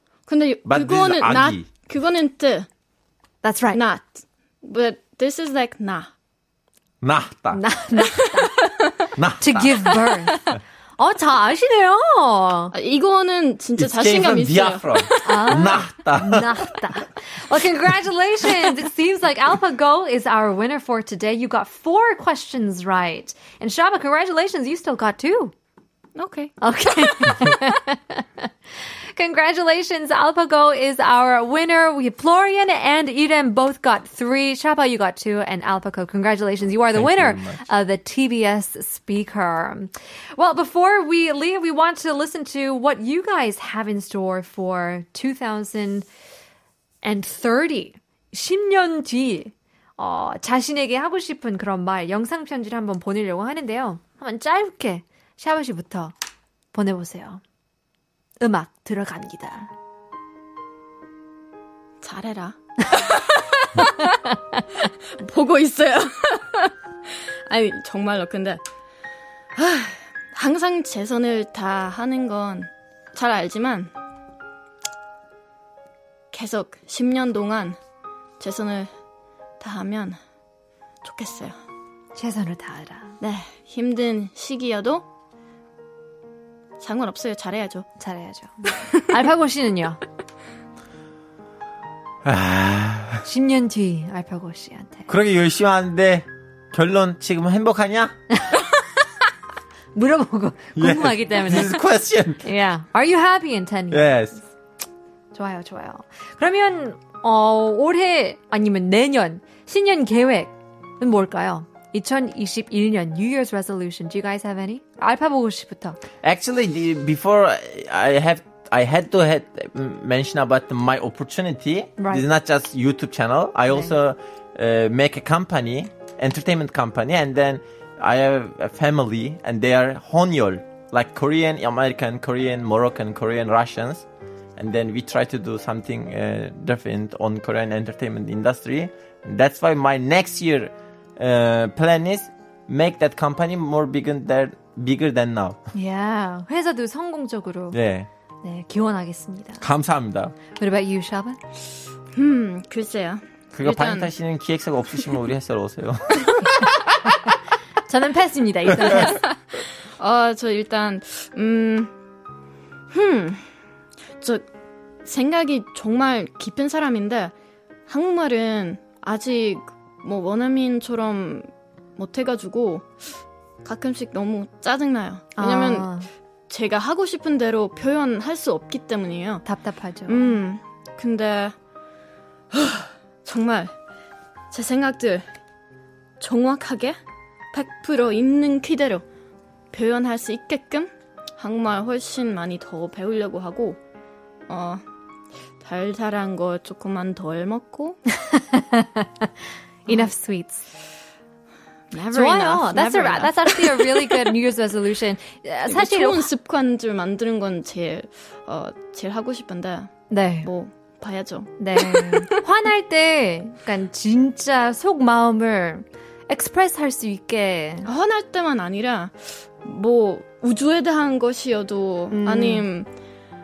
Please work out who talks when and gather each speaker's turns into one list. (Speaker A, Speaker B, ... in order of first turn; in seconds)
Speaker A: 0.3-2.7, 3.7-6.1, 8.2-8.8, 12.7-15.6, 26.1-26.5, 62.0-64.2, 65.2-66.7, 67.5-68.6, 69.5-73.9, 76.3-77.8, 78.4-78.9, 79.6-80.2, 81.0-81.6, 83.2-85.0, 86.8-87.9, 152.1-154.1, 160.0-161.9, 162.9-163.4, 165.0-167.3, 167.9-172.9, 173.6-175.9, 176.5-179.4, 180.1-181.5, 182.5-183.7, 184.5-185.3, 186.2-186.9, 187.5-189.0, 189.7-193.8, 194.5-194.8, 195.6-198.0, 201.9-204.3, 205.7-212.4, 217.8-222.9
Speaker B: 0.7-1.7, 7.0-7.6, 9.1-9.9, 13.8-16.5, 37.0-37.6, 92.2-93.2, 95.1-98.2, 100.8-102.5, 103.9-104.4, 116.2-145.6, 147.7-148.1, 149.6-150.3, 153.5-156.7
Speaker C: 3.4-3.8, 7.5-8.8, 9.4-12.7, 15.2-25.5, 26.6-28.5, 29.1-46.1, 47.0-56.1, 56.7-57.4, 58.4-59.7, 82.1-83.2, 88.0-90.0, 93.2-95.1, 98.3-98.6, 99.9-101.8, 102.4-104.1, 105.3-116.0, 122.0-122.2, 145.7-147.8, 148.4-149.6, 150.5-151.4, 157.9-159.2, 175.4-176.1, 179.4-180.4, 198.3-199.3, 199.8-200.6, 202.1-206.3, 210.1-210.5, 211.6-217.9, 222.1-222.7